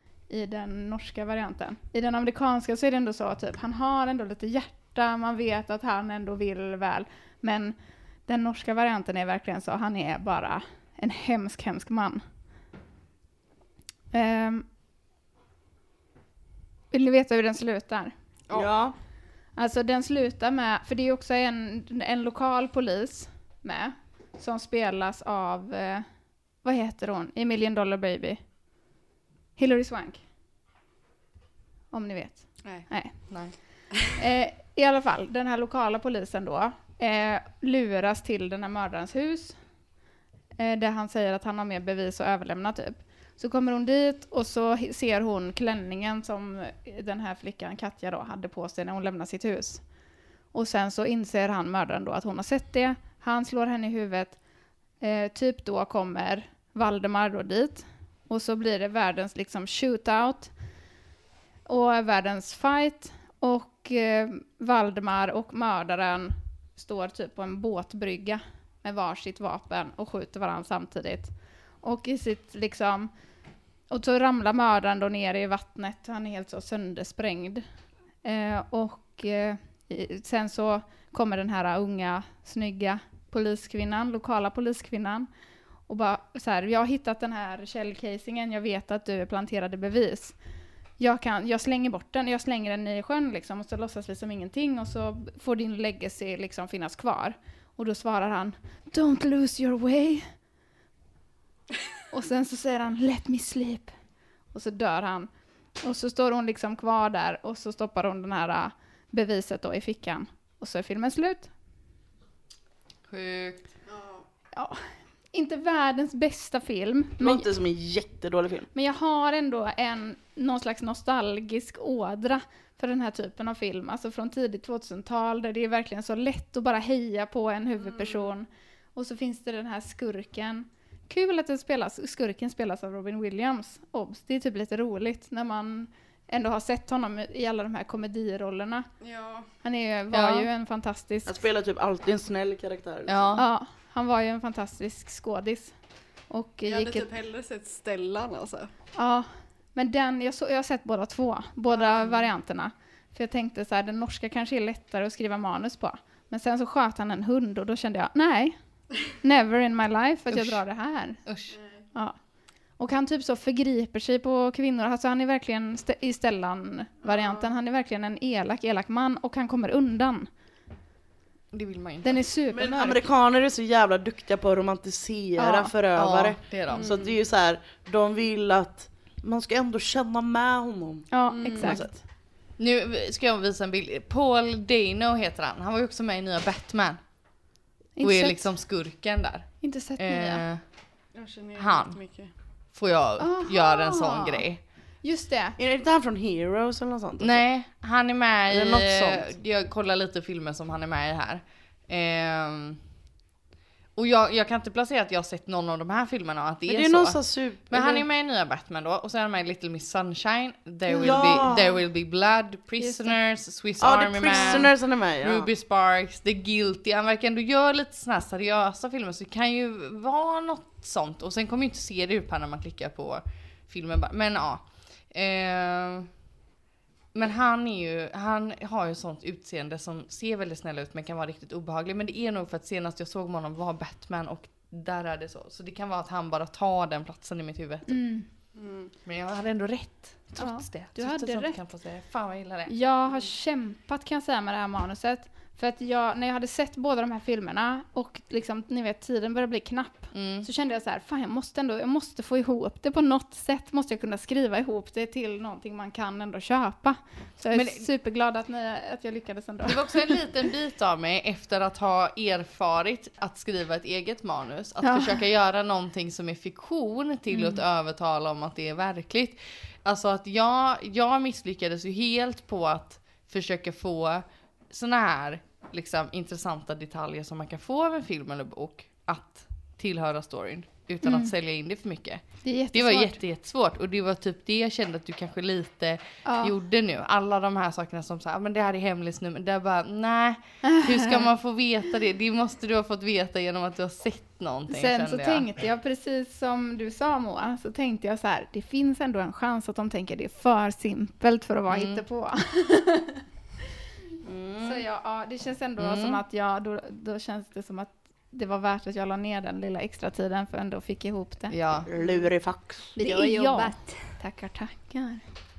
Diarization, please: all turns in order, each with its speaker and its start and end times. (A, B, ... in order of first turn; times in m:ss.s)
0:00.3-0:12.2 A
0:14.1-0:14.7 A
0:16.9-0:18.1 A
0:18.5-0:19.0 B
0:19.6-0:26.1 A
0:26.6-0:28.4 A
0:29.6-0:30.2 A
0:31.9-0:39.6 A
0:33.3-0:33.6 C
0:40.6-0:49.8 A
0:50.5-0:54.4 A
0:55.0-1:00.6 A
1:01.7-1:13.1 A
1:13.9-1:17.6 A
1:18.2-1:25.3 A
1:25.9-1:30.4 A
1:31.0-1:40.3 A
1:42.1-1:44.0 A
1:44.5-1:45.3 A
1:45.8-1:51.5 A
1:53.1-1:53.7 C
1:53.9-1:54.2 D
1:54.5-1:57.5 A
1:57.2-1:58.7 B
1:58.7-2:18.9 A
2:07.8-2:08.3 D
2:19.0-2:19.5 D
2:19.6-2:21.4 A
2:20.1-2:20.5 C
2:21.3-2:23.4 B
2:23.1-2:23.4 C
2:23.4-2:25.8 A
2:26.3-2:27.1 A
2:26.6-2:28.7 D
2:29.0-2:41.3 A
2:31.7-2:32.3 D
2:40.3-2:40.6 C
2:41.2-2:41.6 C
2:41.5-2:41.9 D
2:41.9-2:50.3 A
2:47.0-2:47.5 D
2:51.5-2:52.2 C
2:52.0-2:53.0 A
2:52.5-3:01.9 B
2:55.4-2:55.7 A
2:56.0-2:56.9 C
2:56.7-2:57.2 D
3:01.1-3:01.8 A
3:01.3-3:01.8 D
3:02.6-3:07.0 C
3:08.0-3:08.6 A
3:08.0-3:10.6 C
3:09.6-3:10.4 A
3:11.1-3:12.3 D
3:11.6-3:12.0 C
3:12.7-3:14.6 C
3:13.2-3:14.5 A
3:15.0-3:15.6 A
3:15.6-3:17.4 B
3:17.2-3:22.8 C
3:18.5-3:19.3 B
3:24.0-3:46.1 C
3:26.7-3:28.0 B
3:30.9-3:31.5 A
3:30.9-3:31.8 B
3:32.8-3:33.2 A
3:33.8-3:35.5 B
3:34.4-3:34.6 A
3:47.1-3:58.2 C
3:57.9-3:58.3 A
3:58.6-3:58.9 D
3:59.0-4:02.7 C
4:00.4-4:01.6 A
4:02.7-4:20.1 A
4:10.1-4:10.5 C
4:17.5-4:17.9 C
4:19.6-4:55.5 C
4:24.8-4:25.1 A
4:27.3-4:27.6 A
4:41.0-4:41.3 A
4:42.4-4:43.2 A
4:46.2-4:46.5 A
4:50.6-4:51.3 A
4:54.7-5:03.2 A
5:01.7-5:02.0 C
5:04.2-5:04.8 B
5:04.6-5:11.6 A
5:05.8-5:06.2 C
5:11.5-5:11.9 C
5:11.9-5:13.0 B
5:13.0-5:15.2 A
5:13.4-5:13.6 D